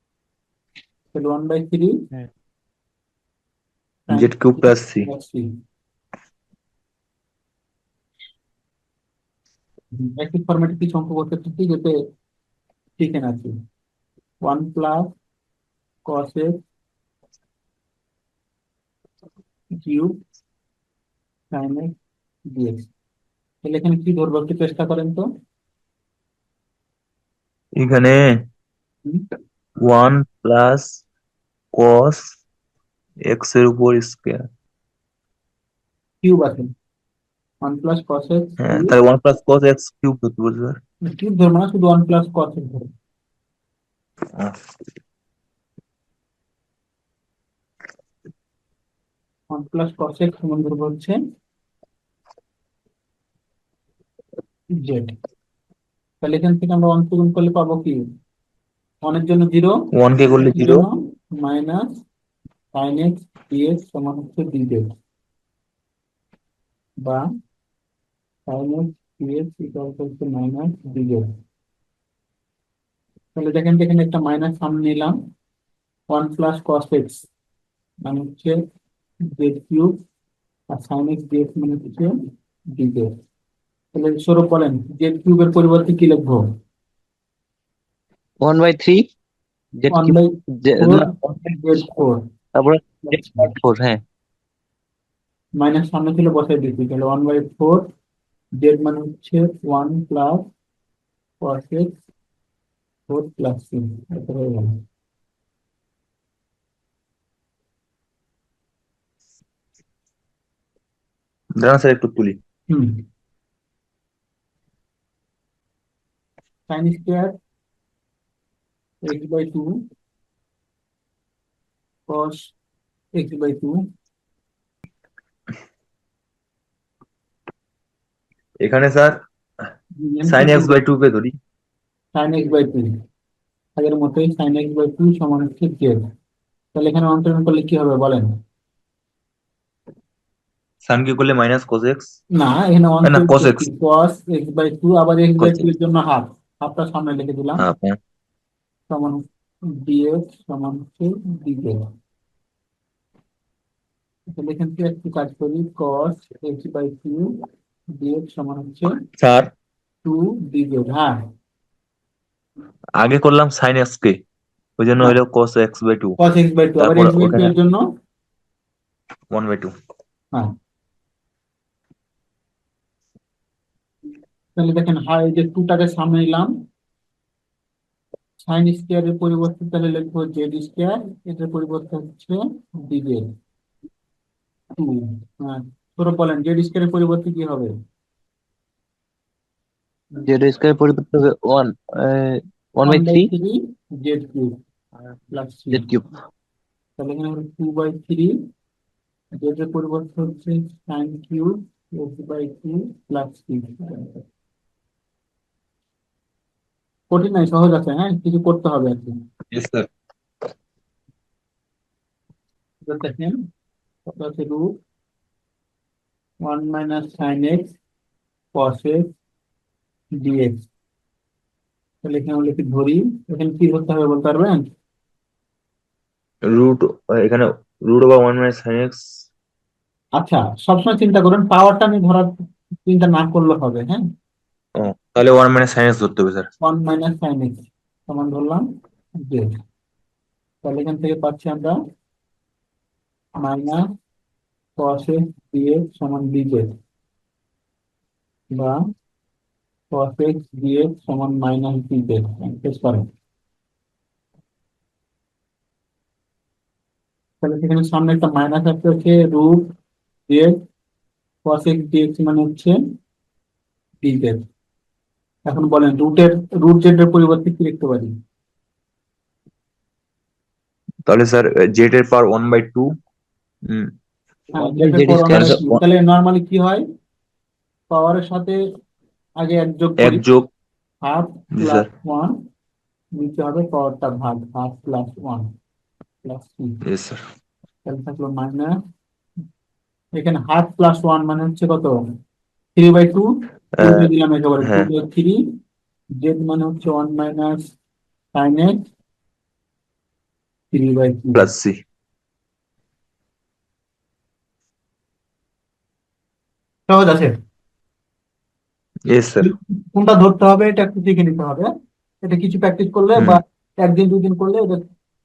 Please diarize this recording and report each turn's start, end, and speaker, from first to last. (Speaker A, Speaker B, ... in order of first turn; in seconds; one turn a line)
Speaker A: 1.1-2.0
Speaker A: 4.1-5.5
Speaker B: 4.1-5.1
Speaker A: 9.9-12.0
Speaker A: 13.0-13.5
Speaker A: 14.4-15.2
Speaker A: 16.1-16.6
Speaker A: 19.8-20.2
Speaker A: 21.5-21.9
Speaker A: 22.5-22.9
Speaker A: 23.6-25.3
Speaker B: 27.8-28.5
Speaker B: 29.8-31.0
Speaker B: 31.7-32.4
Speaker B: 33.2-34.5
Speaker A: 36.2-36.7
Speaker A: 37.6-39.0
Speaker B: 38.6-40.8
Speaker A: 41.0-42.9
Speaker B: 44.4-44.6
Speaker A: 49.5-51.2
Speaker A: 54.8-55.1
Speaker A: 56.2-58.0
Speaker A: 59.0-59.8
Speaker B: 59.9-60.9
Speaker A: 60.5-62.0
Speaker A: 62.8-65.0
Speaker A: 68.5-71.3
Speaker A: 73.4-75.2
Speaker A: 76.1-77.3
Speaker A: 78.0-78.6
Speaker A: 79.3-80.0
Speaker A: 80.7-82.2
Speaker A: 82.7-83.1
Speaker A: 83.9-86.5
Speaker C: 88.4-89.1
Speaker C: 89.8-91.8
Speaker A: 89.9-92.2
Speaker C: 92.5-94.0
Speaker A: 93.0-93.5
Speaker A: 95.6-97.9
Speaker A: 98.6-100.5
Speaker A: 101.4-102.0
Speaker A: 103.1-104.8
Speaker B: 111.6-112.4
Speaker A: 112.7-113.0
Speaker A: 116.7-117.3
Speaker A: 119.0-119.8
Speaker A: 122.1-122.5
Speaker A: 123.2-123.8
Speaker B: 128.6-129.2
Speaker A: 130.0-130.8
Speaker B: 130.3-131.4
Speaker A: 132.2-132.9
Speaker A: 133.8-136.0
Speaker A: 136.8-138.3
Speaker B: 140.8-142.2
Speaker A: 142.3-147.6
Speaker B: 143.0-143.7
Speaker B: 145.4-145.7
Speaker B: 147.6-148.0
Speaker A: 148.9-151.9
Speaker A: 154.3-157.3
Speaker A: 158.0-159.0
Speaker B: 159.2-159.5
Speaker A: 160.1-161.2
Speaker B: 163.0-164.2
Speaker B: 164.8-166.2
Speaker A: 166.2-167.9
Speaker B: 166.8-167.5
Speaker B: 169.3-169.8
Speaker A: 174.6-176.6
Speaker A: 178.4-183.3
Speaker A: 184.8-187.7
Speaker C: 190.2-193.3
Speaker A: 192.9-194.6
Speaker A: 195.3-195.9
Speaker C: 195.7-196.1
Speaker A: 197.0-198.4
Speaker A: 199.4-204.2
Speaker A: 207.1-209.2
Speaker B: 209.5-209.9
Speaker A: 212.9-213.4
Speaker A: 214.1-214.8
Speaker A: 216.4-217.8
Speaker A: 218.5-219.1
Speaker A: 220.2-220.7
Speaker A: 222.0-224.7
Speaker B: 226.4-229.2
Speaker A: 230.2-234.0
Speaker B: 234.8-236.5
Speaker A: 236.6-238.7
Speaker A: 239.2-239.5
Speaker A: 240.6-241.8
Speaker A: 243.4-243.8
Speaker A: 244.8-246.7
Speaker A: 248.5-248.8
Speaker A: 249.9-253.1
Speaker A: 257.4-259.7
Speaker A: 260.3-260.6
Speaker A: 261.4-262.8
Speaker A: 264.0-264.4
Speaker A: 265.5-268.1
Speaker B: 271.1-273.0
Speaker B: 273.6-273.9
Speaker A: 274.6-276.9
Speaker C: 274.6-275.6
Speaker B: 275.3-275.8
Speaker A: 277.9-278.6
Speaker A: 279.4-280.2
Speaker B: 280.0-280.5
Speaker A: 281.0-282.4
Speaker B: 281.5-281.9
Speaker A: 283.1-285.5
Speaker A: 286.2-286.8
Speaker B: 286.8-287.2
Speaker A: 287.9-288.8
Speaker A: 290.2-292.0
Speaker A: 292.8-295.6
Speaker B: 293.8-294.9
Speaker A: 296.2-297.7
Speaker A: 298.4-298.9
Speaker A: 300.7-301.5
Speaker B: 301.3-301.8
Speaker A: 306.9-307.4
Speaker B: 309.1-309.5
Speaker A: 309.4-311.7
Speaker A: 312.2-314.9
Speaker B: 313.2-313.4